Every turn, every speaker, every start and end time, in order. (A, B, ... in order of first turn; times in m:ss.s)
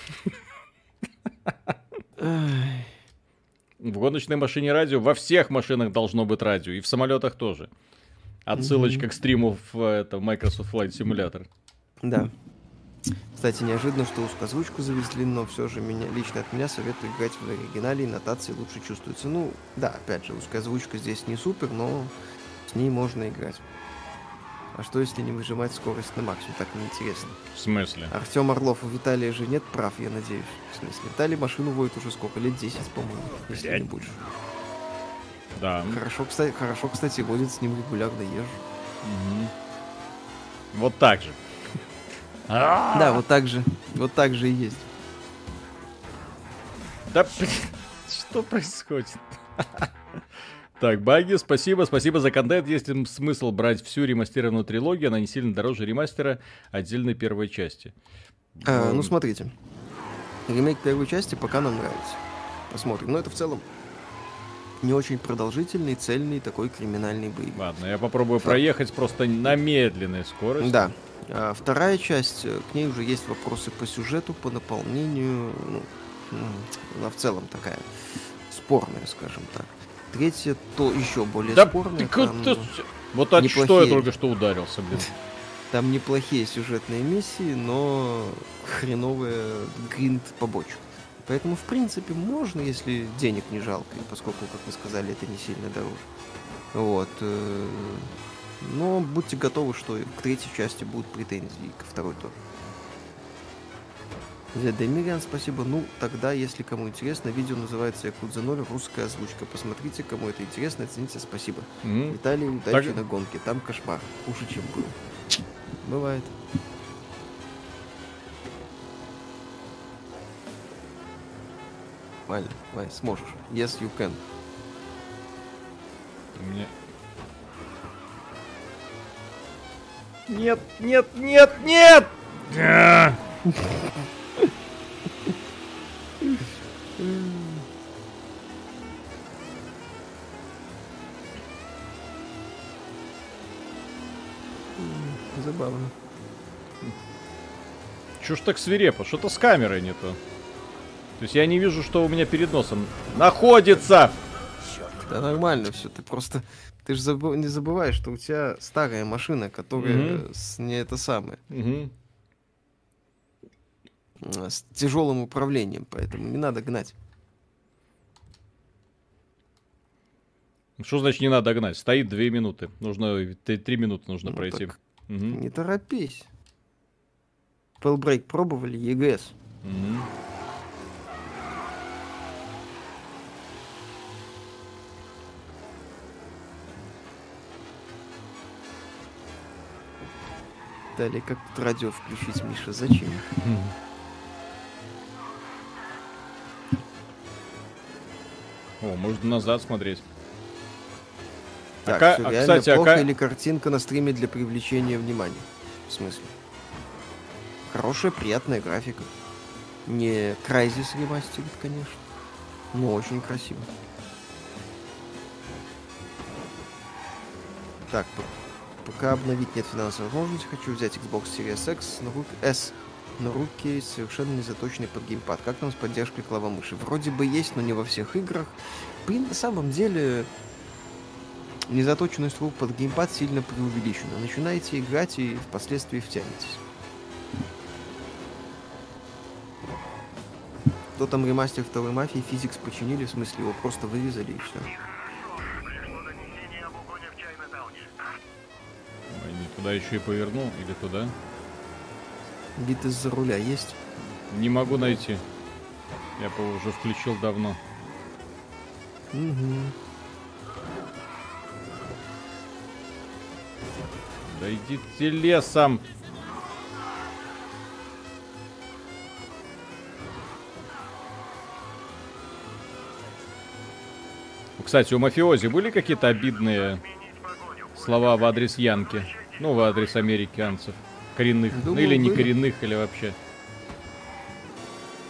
0:01.5-0:01.7 A
0:02.2-0:02.9 B
0:03.8-0:07.7 A
0:08.5-0:11.5 A
0:08.6-0:09.0 B
0:12.0-0:12.3 B
0:13.3-0:22.1 B
0:22.7-0:23.6 B
0:24.7-0:27.3 B
0:27.4-0:28.1 A
0:28.1-0:34.2 B
0:33.5-0:33.8 A
0:35.6-0:36.0 A
0:35.9-0:38.6 B
0:39.0-0:39.5 A
0:40.7-0:41.4 A
0:42.5-0:43.2 A
0:42.9-0:44.9 B
0:47.1-0:50.2 A
0:50.8-0:58.0 A
0:58.6-0:59.1 A
0:58.6-0:59.6 B
1:00.5-1:03.7 B
1:04.8-1:07.6 B
1:07.6-1:10.8 A
1:10.6-1:22.7 B
1:21.4-1:25.1 A
1:23.4-1:24.1 B
1:25.7-1:36.0 B
1:36.7-1:42.4 B
1:44.5-1:55.0 B
1:51.8-1:52.2 A
1:52.7-1:53.0 A
1:55.8-1:56.3 B
2:02.3-2:04.2 B
2:06.4-2:06.7 A
2:10.3-2:13.2 A
2:17.0-2:17.7 B
2:24.8-2:25.9 B
2:28.2-2:30.2 A
2:31.2-2:34.2 A
2:35.1-2:41.4 B
2:39.8-2:40.2 A
2:41.5-2:41.9 A
2:44.2-2:46.9 B
2:50.8-2:55.4 A
2:54.3-2:54.7 B
2:55.3-2:56.3 B
2:57.8-2:59.4 B
2:59.6-3:00.1 A
3:11.0-3:13.2 B
3:13.3-3:13.7 A
3:18.8-3:20.0 A
3:21.8-3:26.3 B
3:21.9-3:23.1 A
3:27.7-3:29.1 B
3:29.9-3:32.0 B
3:32.7-3:33.7 B
3:37.9-3:38.3 B
3:38.8-3:50.3 B
3:51.7-3:56.6 B
4:01.0-4:04.7 B
4:09.1-4:11.2 A
4:12.6-4:13.8 B
4:14.3-4:15.2 A
4:16.2-4:17.6 A
4:19.1-4:19.8 B
4:24.3-4:25.8 A
4:34.6-4:36.8 A
4:37.8-4:43.2 A
4:41.5-4:42.3 B